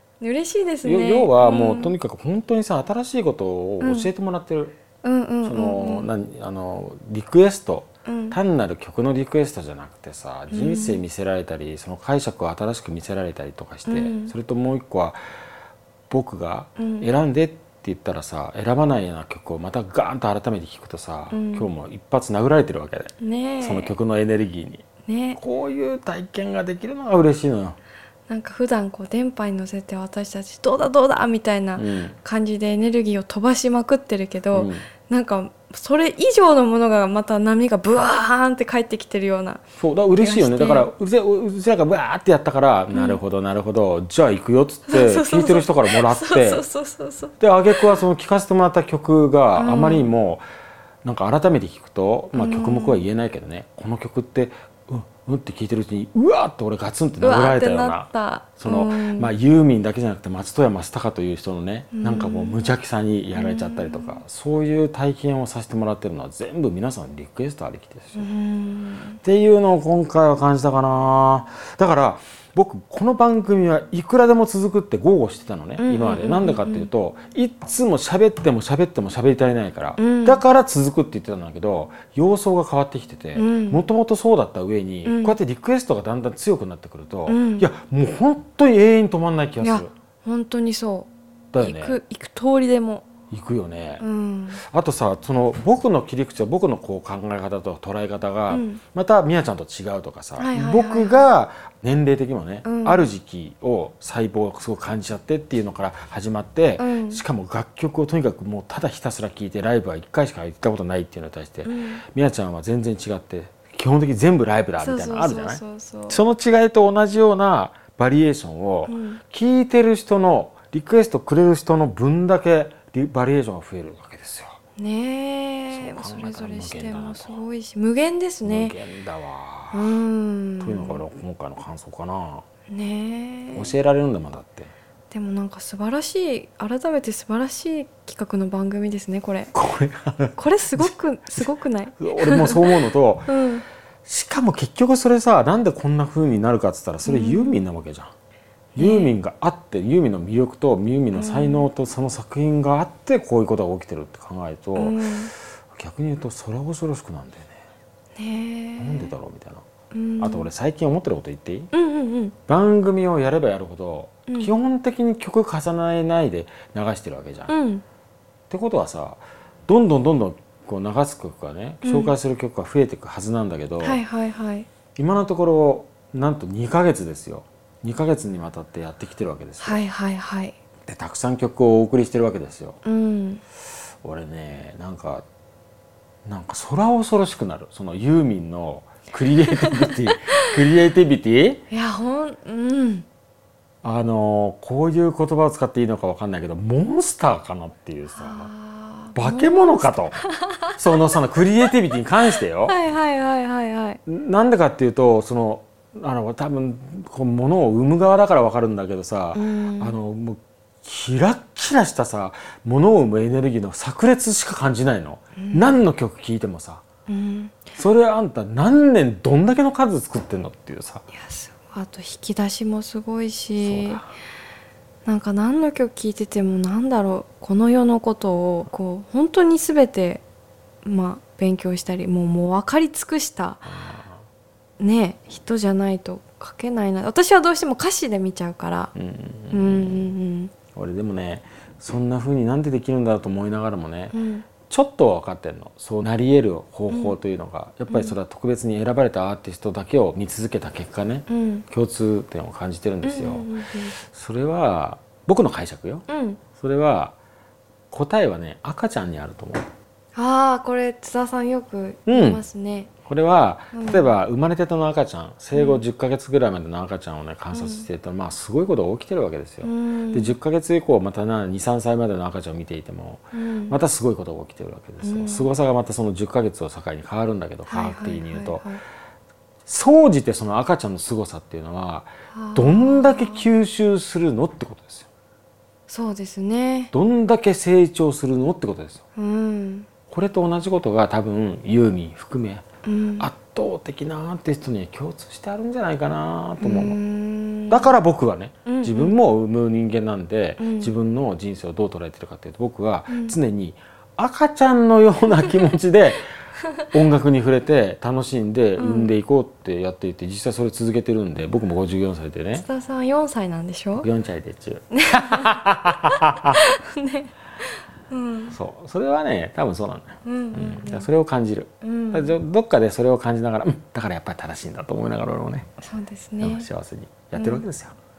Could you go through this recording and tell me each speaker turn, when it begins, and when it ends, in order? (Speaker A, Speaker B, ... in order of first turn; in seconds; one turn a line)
Speaker A: 0.2-1.9
Speaker B: 0.8-4.8
Speaker A: 3.8-4.1
Speaker A: 5.0-6.1
Speaker B: 5.4-15.2
Speaker A: 8.0-8.3
Speaker A: 10.5-11.0
Speaker A: 13.9-14.3
Speaker B: 16.1-27.8
Speaker A: 16.8-17.1
Speaker A: 21.3-21.7
Speaker A: 23.2-23.9
Speaker A: 25.1-25.4
Speaker A: 28.3-39.6
Speaker B: 31.8-32.2
Speaker B: 34.5-34.9
Speaker B: 39.8-46.6
Speaker A: 40.2-40.9
Speaker A: 42.9-43.2
Speaker A: 44.9-48.0
Speaker B: 47.4-50.4
Speaker A: 49.5-50.1
Speaker B: 51.0-68.3
Speaker A: 52.3-53.1
Speaker A: 57.2-59.3
Speaker A: 61.9-62.7
Speaker A: 63.3-64.2
Speaker A: 68.2-69.2
Speaker B: 69.2-89.9
Speaker A: 75.8-76.9
Speaker A: 80.0-80.4
Speaker A: 83.3-83.8
Speaker A: 85.0-85.3
Speaker A: 87.3-87.7
Speaker A: 89.6-93.0
Speaker B: 91.5-92.0
Speaker B: 93.3-94.0
Speaker A: 94.0-94.6
Speaker B: 94.6-124.6
Speaker A: 98.5-98.8
Speaker A: 100.4-101.2
Speaker A: 102.6-103.1
Speaker A: 106.8-107.2
Speaker A: 111.7-112.0
Speaker A: 114.8-116.2
Speaker A: 118.8-119.2
Speaker A: 124.8-128.8
Speaker B: 125.7-127.4
Speaker B: 128.4-129.9
Speaker A: 129.7-131.0
Speaker B: 130.6-132.4
Speaker A: 132.7-133.7
Speaker B: 133.5-134.7
Speaker A: 135.1-139.5
Speaker B: 139.5-141.5
Speaker A: 140.4-142.7
Speaker B: 142.0-143.3
Speaker A: 143.3-143.6
Speaker B: 144.0-148.1
Speaker A: 147.0-147.6
Speaker B: 148.7-155.0
Speaker A: 148.8-149.1
Speaker A: 151.1-151.7
Speaker A: 154.8-155.3
Speaker B: 155.7-157.6
Speaker A: 158.2-159.1
Speaker B: 158.8-159.6
Speaker A: 159.9-160.5
Speaker B: 160.2-161.7
Speaker A: 161.7-162.3
Speaker B: 162.5-167.5
Speaker A: 164.3-164.5
Speaker A: 167.5-167.8
Speaker B: 168.5-174.0
Speaker A: 171.8-172.1
Speaker A: 173.8-174.7
Speaker B: 174.9-179.8
Speaker A: 179.6-180.6
Speaker B: 180.8-182.8
Speaker A: 182.8-183.4
Speaker B: 184.0-185.2
Speaker B: 186.2-191.6
Speaker A: 189.6-190.5
Speaker A: 191.7-193.1
Speaker B: 193.8-198.5
Speaker A: 198.1-200.8
Speaker B: 199.1-200.2
Speaker B: 200.8-202.8
Speaker A: 202.3-204.0
Speaker B: 204.1-216.8
Speaker A: 209.3-209.9
Speaker A: 215.4-215.8
Speaker A: 217.1-217.7
Speaker B: 217.8-221.0
Speaker A: 221.1-224.0
Speaker B: 223.6-224.1
Speaker A: 225.0-230.2
Speaker A: 230.8-233.6
Speaker B: 233.6-234.2
Speaker A: 234.8-238.9
Speaker B: 238.9-240.1
Speaker A: 239.5-240.5
Speaker B: 240.7-244.2
Speaker A: 244.1-244.5
Speaker B: 244.7-253.5
Speaker A: 246.9-247.2
Speaker A: 247.9-248.2
Speaker A: 251.3-251.6
Speaker A: 253.0-253.9
Speaker B: 254.0-256.1
Speaker A: 256.1-256.4
Speaker B: 256.6-257.2
Speaker B: 257.9-259.6
Speaker A: 260.1-262.9
Speaker B: 262.1-262.4
Speaker B: 263.1-278.6
Speaker A: 263.7-264.1
Speaker A: 265.5-265.8
Speaker A: 267.5-267.9
Speaker A: 269.6-270.3
Speaker A: 273.3-273.8
Speaker A: 275.0-275.5
Speaker A: 277.7-278.8
Speaker B: 279.6-285.1
Speaker A: 282.3-283.5
Speaker A: 285.9-286.9
Speaker B: 286.9-289.0
Speaker A: 289.1-289.9
Speaker B: 290.1-292.6
Speaker A: 292.8-293.3
Speaker B: 293.2-297.0
Speaker A: 296.6-297.9
Speaker B: 297.7-306.2
Speaker A: 298.6-299.1
Speaker A: 300.6-300.9
Speaker A: 303.1-303.4
Speaker B: 306.9-312.7
Speaker A: 308.8-309.1
Speaker A: 312.5-314.1
Speaker B: 314.0-316.6
Speaker A: 314.9-318.6
Speaker B: 318.5-325.7
Speaker A: 320.2-321.1
Speaker A: 321.8-322.4
Speaker A: 325.8-326.7
Speaker B: 326.4-327.9
Speaker A: 327.3-327.6